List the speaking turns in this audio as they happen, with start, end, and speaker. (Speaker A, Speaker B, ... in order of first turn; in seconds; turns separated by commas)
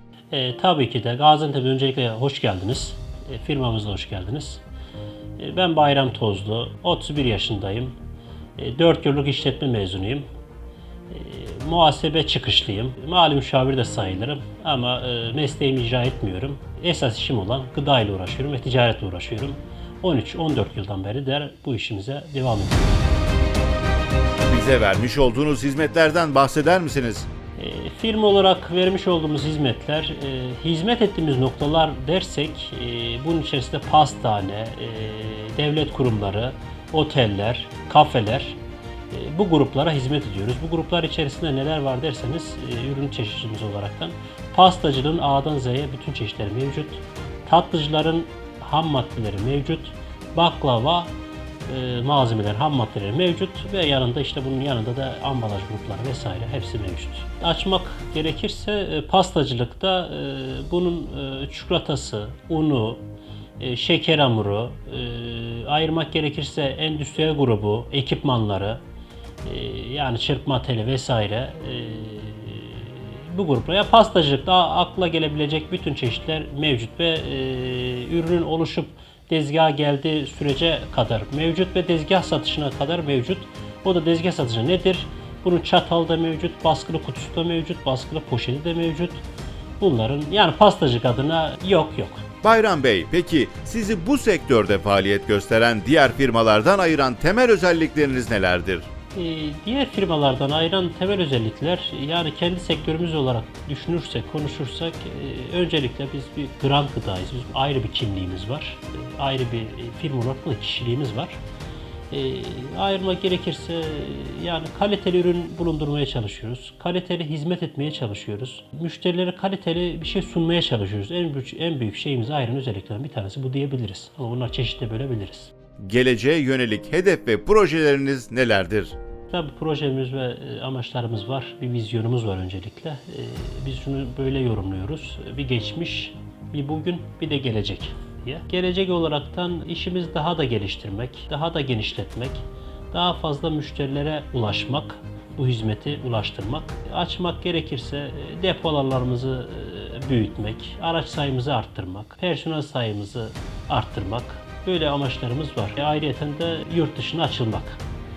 Speaker A: 0.3-4.6, Speaker A: 5.4-7.9, Speaker A: 8.6-10.2, Speaker A: 11.1-23.0, Speaker B: 24.5-27.3, Speaker A: 27.6-38.6, Speaker A: 39.1-51.1, Speaker A: 51.6-63.0, Speaker A: 63.6-68.8, Speaker A: 69.4-89.2, Speaker A: 89.8-92.2, Speaker B: 92.4-98.9, Speaker A: 99.1-111.4, Speaker A: 112.1-125.5, Speaker B: 125.8-128.9, Speaker A: 129.3-157.8